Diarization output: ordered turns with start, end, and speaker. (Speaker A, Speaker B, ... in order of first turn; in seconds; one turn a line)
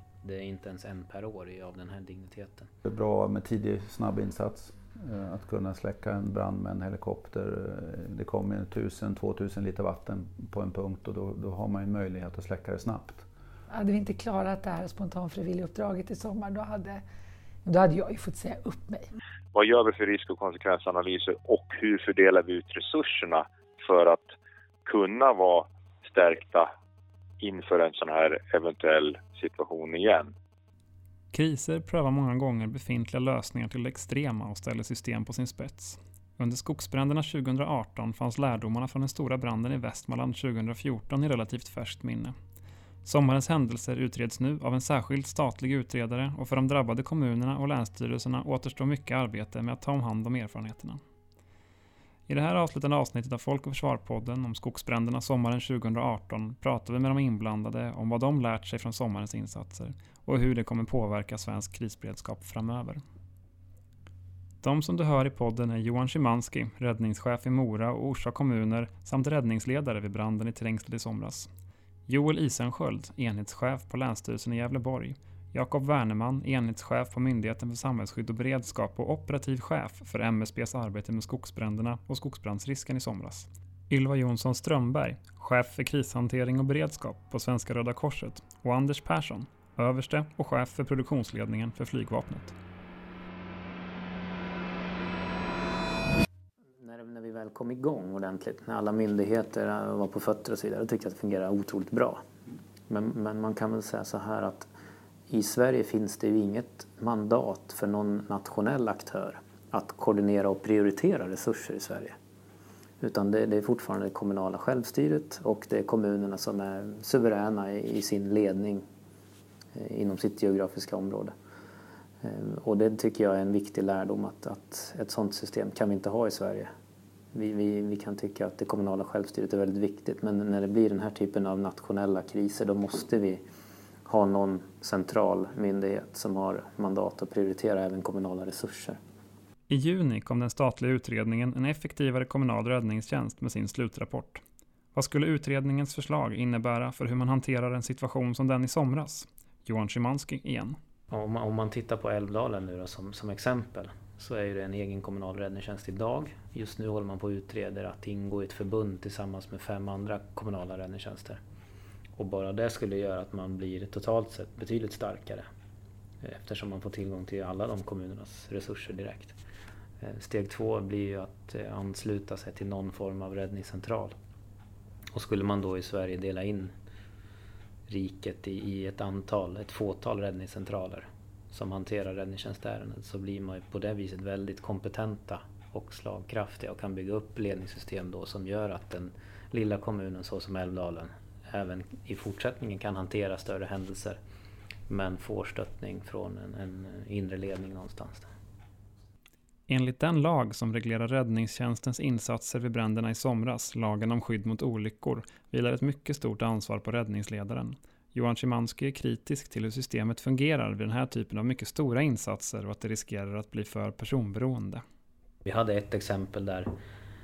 Speaker A: 0.2-2.7
Speaker B: 2.8-13.2
Speaker C: 13.7-17.0
Speaker C: 17.6-19.1
Speaker D: 19.5-24.3
Speaker D: 24.9-26.7
Speaker D: 27.4-30.3
Speaker E: 31.3-42.3
Speaker E: 43.0-51.0
Speaker E: 52.3-63.0
Speaker E: 64.6-71.5
Speaker E: 72.1-92.5
Speaker A: 96.8-102.2
Speaker A: 102.9-104.7
Speaker A: 105.3-112.1
Speaker A: 113.0-118.8
Speaker A: 119.7-121.3
Speaker A: 122.2-126.7
Speaker A: 127.3-133.4
Speaker A: 134.1-139.0
Speaker E: 139.7-144.4
Speaker E: 144.9-150.8
Speaker A: 151.1-161.4
Speaker A: 162.2-165.5
Speaker A: 166.2-169.4
Speaker A: 170.0-174.1
Speaker A: 175.1-176.7
Speaker A: 177.9-194.2
Speaker A: 194.9-198.3
Speaker E: 199.7-214.8
Speaker A: 215.4-216.7